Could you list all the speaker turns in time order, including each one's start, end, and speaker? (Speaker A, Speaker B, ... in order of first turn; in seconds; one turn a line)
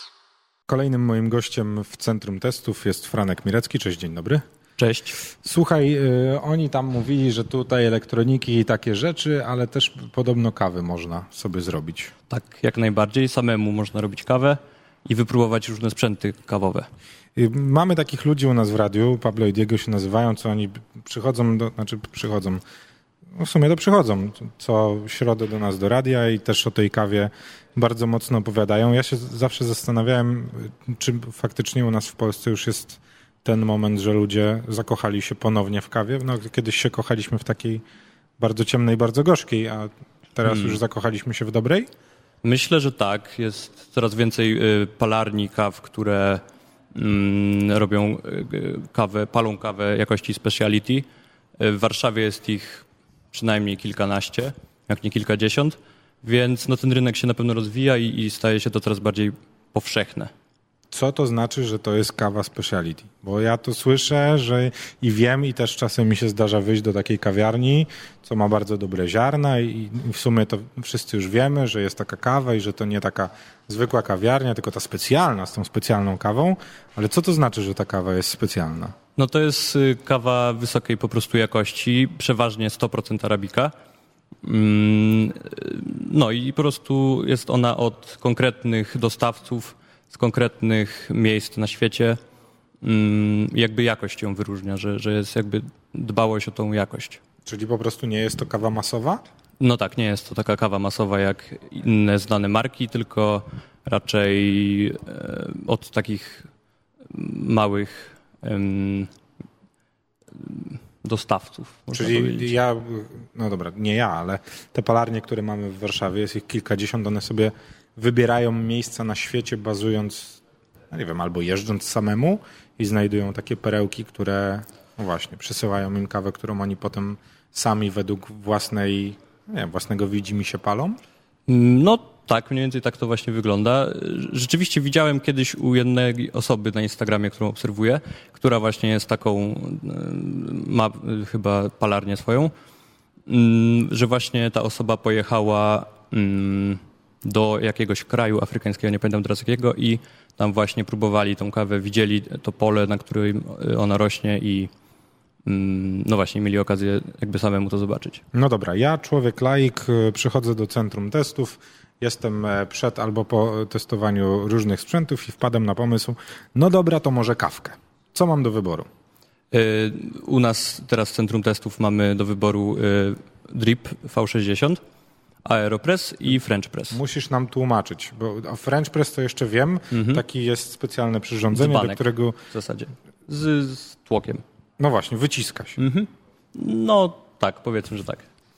Speaker A: 0.7-4.4
Speaker B: 4.8-5.2
Speaker A: 5.4-12.1
Speaker B: 12.3-16.9
Speaker A: 17.4-22.6
Speaker A: 23.4-37.8
Speaker A: 38.4-41.9
Speaker B: 40.5-40.8
Speaker B: 42.4-46.4
Speaker B: 46.9-51.0
Speaker B: 51.6-60.3
Speaker A: 60.9-78.9
Speaker B: 79.2-83.7
Speaker B: 84.4-92.2
Speaker B: 92.8-97.2
Speaker A: 97.4-99.2
Speaker B: 99.6-106.5
Speaker B: 107.1-109.1
Speaker B: 110.4-112.5
Speaker A: 111.9-131.0
Speaker B: 131.5-142.5
Speaker B: 143.3-154.7
Speaker B: 155.4-158.2
Speaker A: 158.3-168.9
Speaker B: 169.5-174.8
Speaker B: 175.4-177.0
Speaker A: 176.9-182.4
Speaker B: 179.9-180.2
Speaker B: 181.5-184.4
Speaker A: 184.8-185.8
Speaker B: 185.8-188.3